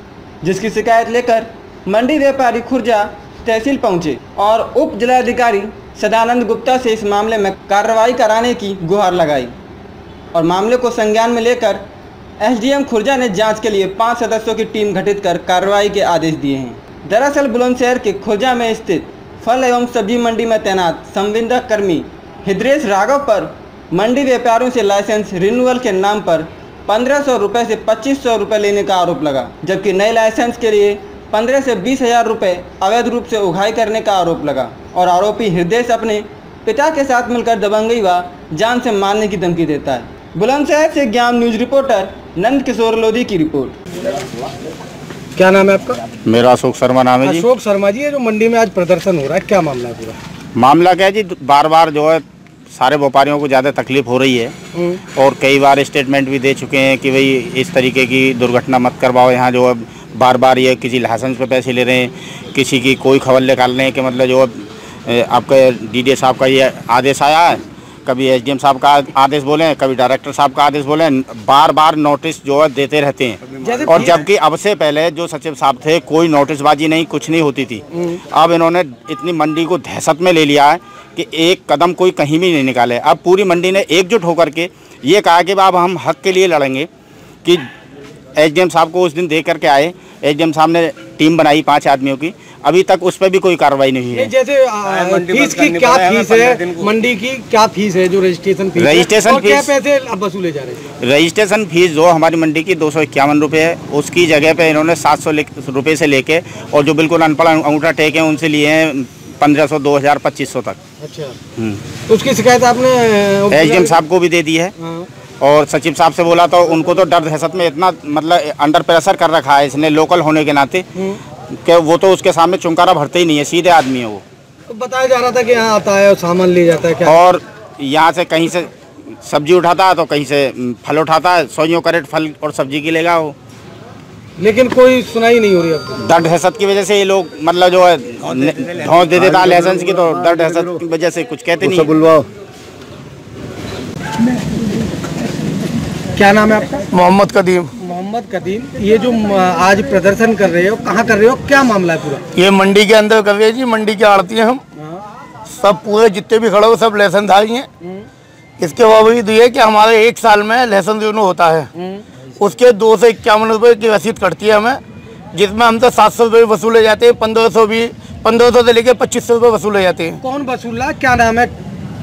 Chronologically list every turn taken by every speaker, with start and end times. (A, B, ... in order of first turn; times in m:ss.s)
0:00.4-0:09.5 A
0:10.3-0:11.8 A
0:12.4-0:43.8 A
0:45.4-0:46.0 B
0:46.2-0:47.5 C
0:47.2-0:50.2 B
0:50.6-0:54.5 C
0:55.1-1:26.9 C
1:13.6-1:14.2 B
1:28.4-1:34.3 C
1:34.1-1:40.8 B
1:38.8-1:39.7 C
1:41.0-1:50.8 C
1:51.0-1:51.4 B
1:51.6-1:51.8 C
1:52.1-1:54.0 B
1:53.5-1:54.7 C
1:54.8-1:55.1 B
1:55.4-2:00.8 C
2:01.5-2:04.2 C
2:04.7-2:07.2 B
2:07.0-2:08.7 C
2:09.2-2:13.3 C
2:14.4-2:16.0 B
2:16.0-2:22.2 C
2:26.2-2:26.8 B
2:26.9-2:27.7 D
2:27.8-2:32.2 B
2:32.3-2:34.6 D
2:35.5-2:37.7 D
2:38.6-2:41.7 D
2:41.8-2:42.0 B
2:42.4-2:44.8 D
2:45.3-2:50.2 D
2:50.2-2:51.5 B